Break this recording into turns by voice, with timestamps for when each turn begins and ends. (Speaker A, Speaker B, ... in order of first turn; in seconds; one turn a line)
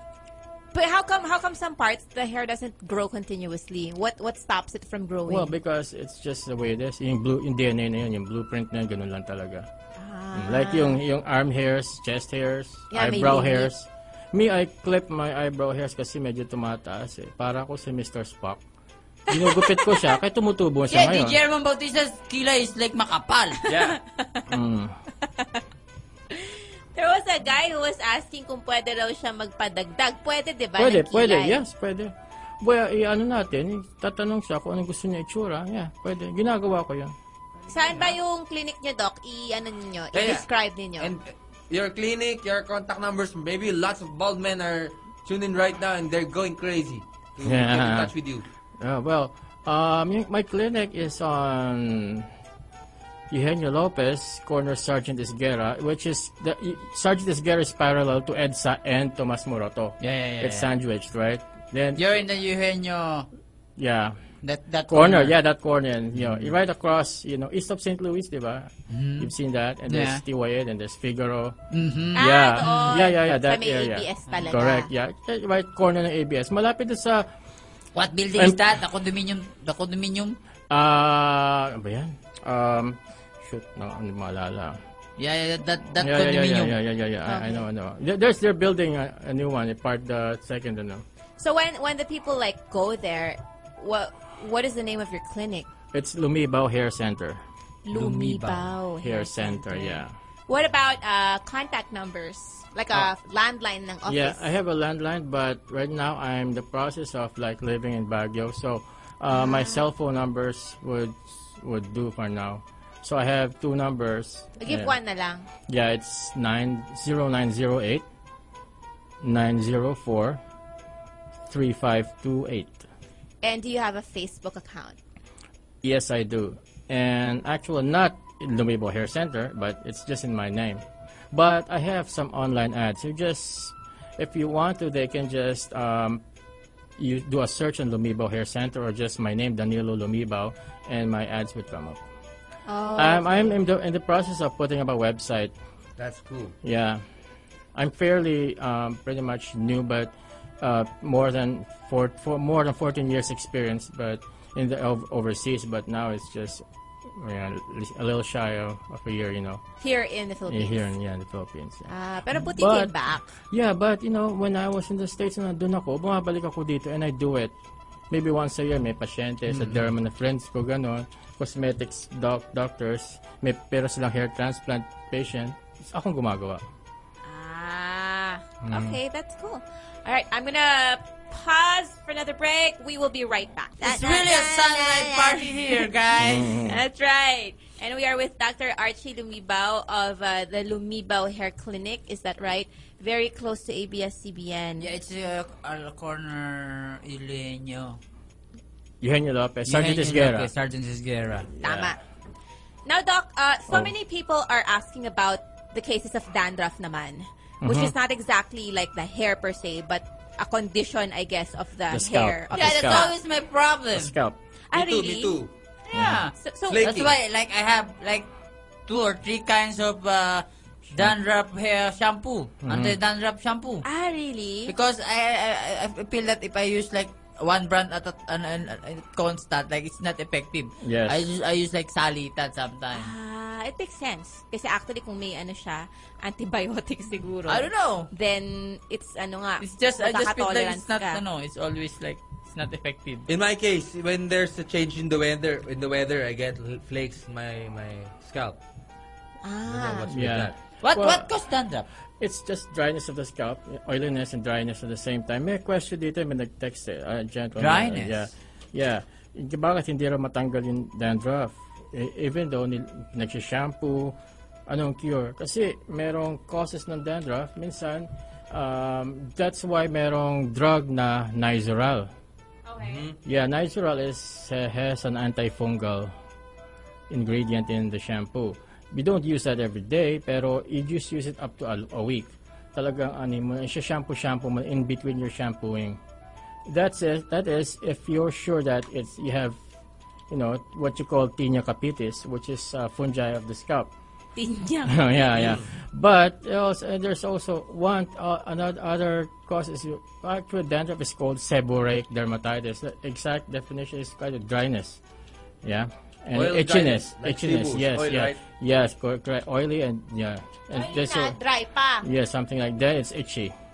Speaker A: 0.7-5.5
Speaker B: 5.3-9.7
Speaker A: 10.0-11.0
Speaker B: 10.3-18.6
Speaker A: 12.9-13.7
Speaker B: 19.3-21.4
Speaker C: 20.9-23.7
Speaker D: 23.7-24.0
Speaker A: 24.2-24.4
Speaker B: 24.5-24.9
Speaker A: 26.4-31.6
Speaker B: 30.8-37.1
Speaker A: 37.7-41.1
Speaker D: 37.7-38.1
Speaker D: 40.1-40.5
Speaker D: 41.0-48.5
Speaker B: 47.4-48.1
Speaker B: 48.8-52.3
Speaker B: 53.3-62.0
Speaker C: 60.0-60.7
Speaker C: 62.0-63.3
Speaker B: 63.8-64.2
Speaker C: 64.4-65.4
Speaker B: 64.9-71.6
Speaker C: 68.9-69.3
Speaker C: 69.9-70.2
Speaker C: 71.7-73.2
Speaker A: 72.2-74.9
Speaker B: 72.2-77.3
Speaker C: 78.0-80.4
Speaker B: 80.7-84.8
Speaker C: 85.2-86.8
Speaker B: 86.0-91.0
Speaker A: 87.2-87.7
Speaker A: 91.4-95.7
Speaker B: 95.9-97.4
Speaker A: 97.8-104.5
Speaker C: 97.9-98.7
Speaker B: 99.0-100.1
Speaker B: 104.1-114.9
Speaker A: 109.3-109.8
Speaker A: 114.6-115.5
Speaker B: 115.7-118.0
Speaker B: 119.2-120.4
Speaker B: 121.5-122.8
Speaker A: 123.4-125.0
Speaker B: 125.8-136.2
Speaker B: 137.0-142.0
Speaker A: 142.7-143.6
Speaker B: 143.0-145.5
Speaker D: 146.0-146.6
Speaker B: 146.6-147.0
Speaker B: 147.8-159.6
Speaker A: 159.8-160.9
Speaker B: 160.5-161.9
Speaker A: 161.9-163.3
Speaker B: 162.5-162.9
Speaker B: 163.4-167.5
Speaker B: 168.1-176.6
Speaker C: 169.5-169.8
Speaker A: 177.2-194.9
Speaker B: 178.6-179.0
Speaker C: 183.8-186.6
Speaker B: 186.2-186.8
Speaker C: 194.8-198.0
Speaker B: 199.0-200.5
Speaker C: 199.7-201.5
Speaker B: 201.6-201.9
Speaker A: 201.6-202.0
Speaker A: 202.9-213.1
Speaker B: 207.6-207.9
Speaker B: 211.9-213.1
Speaker C: 212.5-214.2
Speaker B: 213.9-214.4
Speaker A: 214.7-215.4
Speaker D: 214.7-215.5
Speaker C: 215.9-218.3
Speaker B: 215.9-216.2
Speaker A: 216.4-216.8
Speaker D: 216.7-217.2
Speaker C: 218.9-223.8
Speaker B: 222.7-223.0
Speaker A: 223.8-224.7
Speaker C: 224.7-233.1
Speaker B: 230.8-231.2
Speaker A: 232.9-241.2
Speaker C: 237.5-238.1
Speaker C: 239.6-243.3
Speaker D: 243.3-248.6
Speaker A: 249.4-250.1
Speaker D: 249.6-250.6
Speaker B: 250.1-251.3
Speaker C: 250.8-251.9
Speaker B: 252.2-264.2
Speaker C: 257.6-258.3
Speaker B: 264.7-272.1
Speaker A: 272.7-273.0
Speaker D: 272.8-273.2
Speaker B: 273.2-276.1
Speaker B: 277.1-286.0
Speaker B: 286.7-289.6
Speaker B: 290.3-293.9
Speaker A: 294.4-295.0
Speaker B: 294.9-305.0
Speaker D: 295.3-295.7
Speaker B: 305.6-311.4
Speaker D: 306.3-308.4
Speaker A: 310.7-312.1
Speaker B: 312.0-313.5